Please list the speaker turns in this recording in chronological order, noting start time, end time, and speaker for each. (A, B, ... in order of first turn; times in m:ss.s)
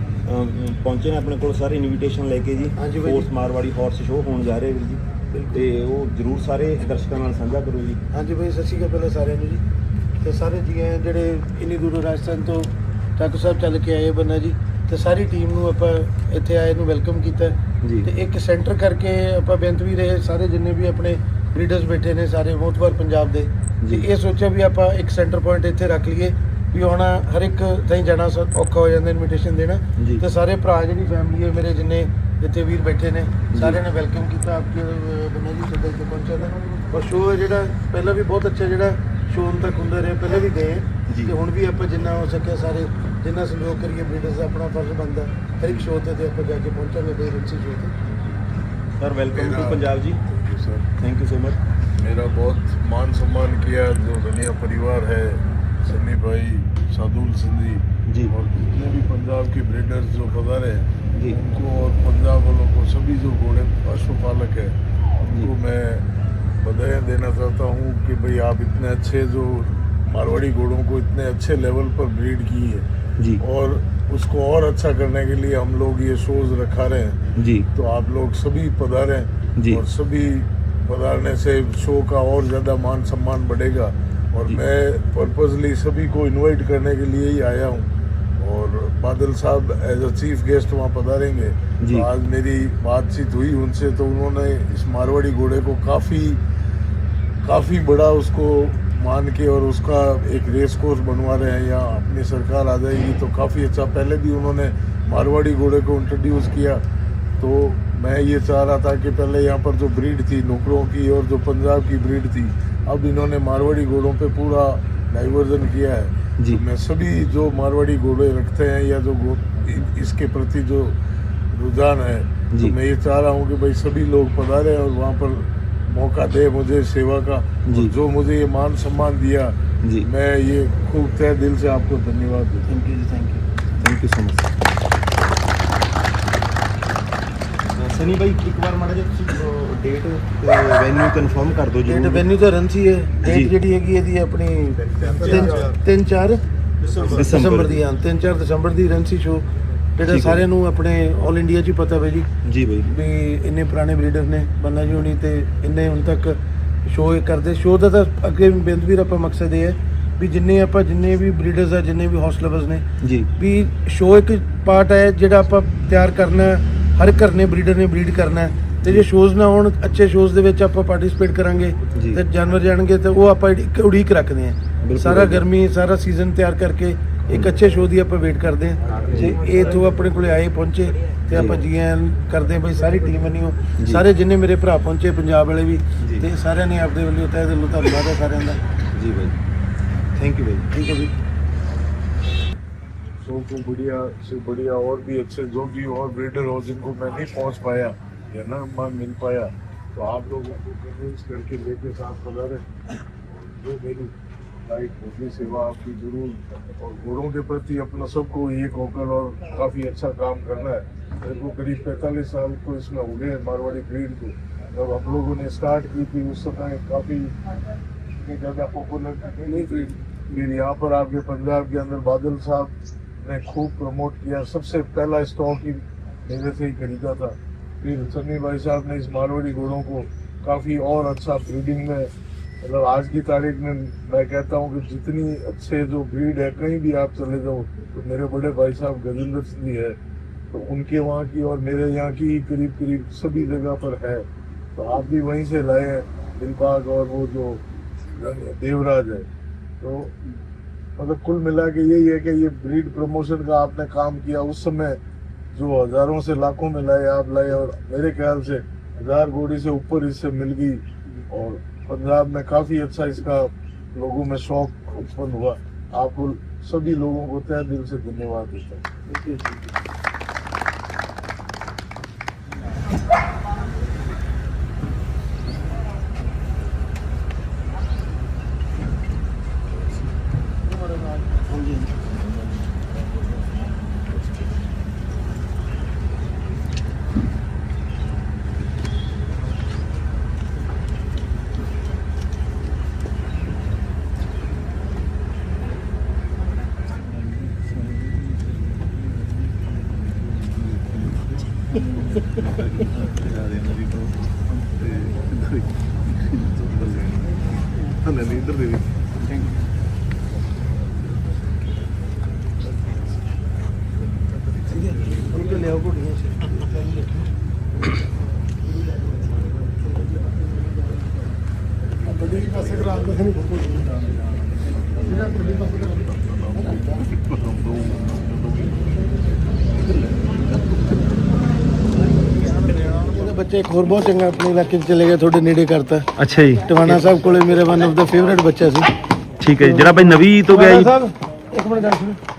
0:00.2-0:08.0 A
0:02.8-0:03.3 B
0:08.1-0:09.6 B
0:10.2-0:47.9 B
0:17.8-0:18.1 A
0:30.0-0:30.2 A
0:33.5-0:33.8 A
0:41.1-0:41.3 A
0:49.0-0:50.2 A
0:49.3-0:50.9 C
0:51.0-0:51.6 A
0:51.9-1:04.7 C
1:05.4-1:06.0 C
1:06.6-1:12.8 C
1:13.4-1:17.2 C
1:17.4-1:17.7 A
1:17.7-1:36.4 C
1:19.6-1:19.8 A
1:31.8-1:32.1 A
1:37.4-1:46.8 C
1:47.4-2:01.0 C
2:01.5-2:12.8 C
2:07.7-2:07.9 A
2:12.7-2:13.4 B
2:13.8-2:14.5 A
2:17.7-2:22.2 A
2:21.8-2:26.4 B
2:23.2-2:23.5 A
2:25.1-2:25.5 A
2:27.0-2:27.8 A
2:27.1-2:32.3 B
2:30.0-2:30.4 A
2:32.4-2:32.9 A
2:32.8-2:42.8 B
2:43.0-2:43.3 A
2:43.4-3:08.6 B
2:51.9-2:52.2 A
2:54.8-2:55.4 A
2:58.9-2:59.5 A
3:01.3-3:01.6 A
3:03.8-3:04.0 A
3:06.0-3:06.3 A
3:08.9-3:09.4 A
3:10.2-3:11.1 B
3:13.2-3:22.6 C
3:23.6-3:24.1 C
3:24.7-3:37.3 C
3:38.2-3:52.1 C
3:39.5-3:39.8 B
3:52.6-4:00.0 C
4:00.5-4:09.2 C
4:09.8-4:10.1 C
4:11.0-4:15.0 C
4:15.5-4:28.8 C
4:29.1-4:29.5 B
4:41.5-4:41.8 B
5:03.2-5:04.0 C
5:05.0-5:05.4 C
5:08.0-5:09.1 C
5:14.6-5:17.1 B
5:22.0-5:23.9 B
5:25.0-5:27.1 B
5:27.3-5:28.7 C
5:32.8-5:36.1 B
5:36.2-5:37.0 A
5:36.6-5:38.9 B
5:39.4-5:40.9 A
5:39.6-5:42.2 B